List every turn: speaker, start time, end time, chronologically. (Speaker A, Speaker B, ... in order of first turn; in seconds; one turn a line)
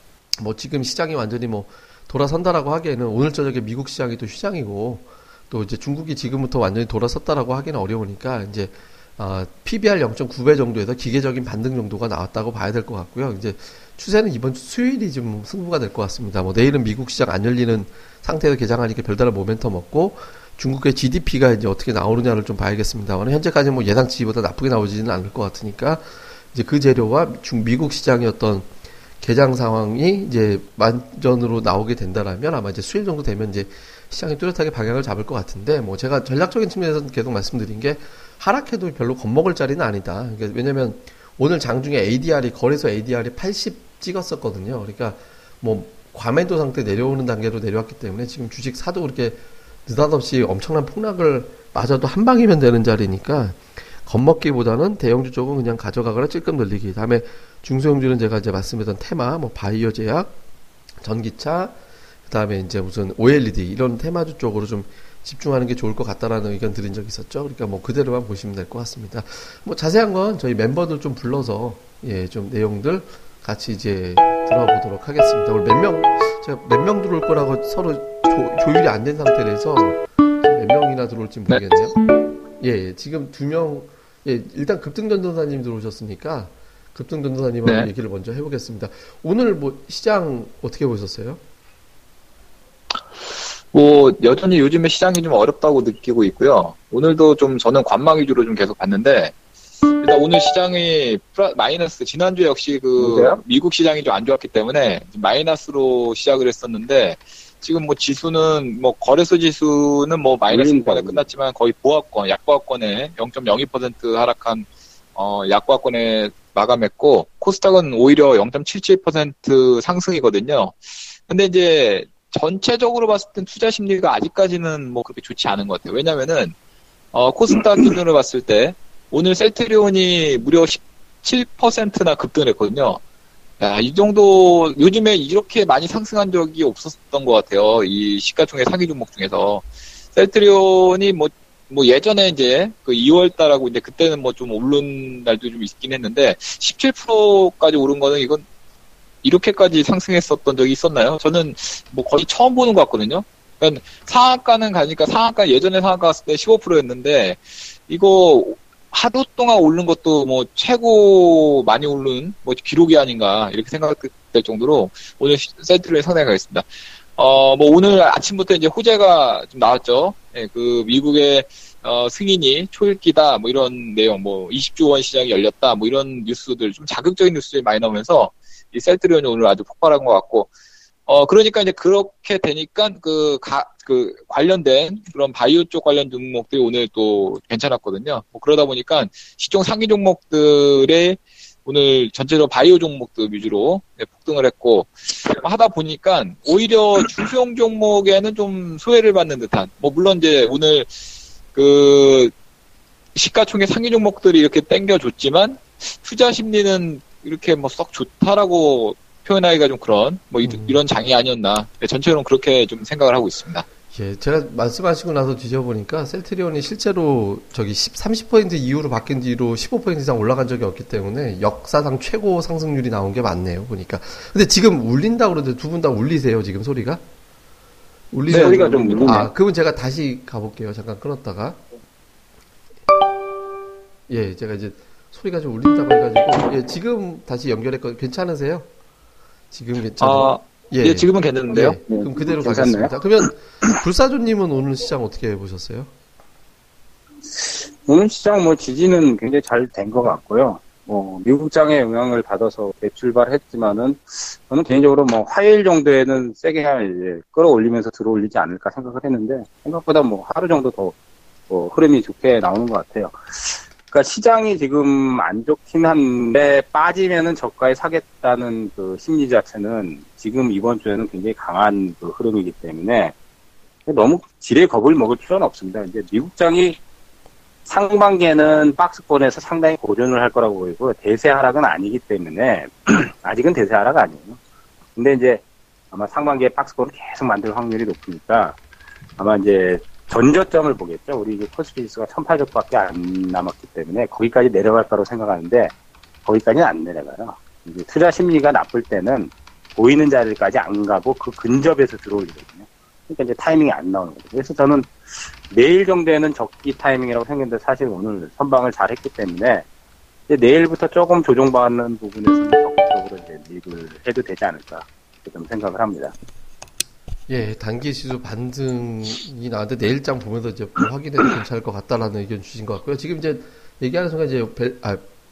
Speaker A: 0.4-28.7
Speaker A: 29.2-60.3
Speaker A: 61.0-61.8
Speaker A: 62.3-81.9
Speaker B: 81.5-81.8
Speaker A: 82.6-91.4
Speaker B: 87.6-87.9
Speaker B: 92.9-99.3
Speaker B: 100.0-126.5
Speaker C: 103.0-103.4
Speaker C: 110.5-111.3
Speaker B: 127.1-133.0
Speaker B: 133.6-148.4
Speaker B: 149.2-180.5
Speaker B: 181.1-200.9
Speaker B: 201.5-202.3
Speaker B: 203.1-213.7
Speaker A: 210.4-210.8
Speaker A: 213.9-227.0
Speaker A: 228.1-231.6
Speaker C: 228.3-229.2
Speaker B: 228.3-229.3
Speaker A: 234.1-238.7
Speaker A: 239.5-245.9
Speaker B: 240.0-241.8
Speaker C: 241.9-242.9
Speaker C: 247.2-260.9
Speaker C: 261.5-273.1
Speaker C: 273.9-276.8
Speaker C: 277.6-284.4
Speaker C: 284.9-288.6
Speaker C: 289.2-295.7
Speaker C: 296.2-309.6
Speaker C: 310.3-316.1
Speaker A: 317.3-325.0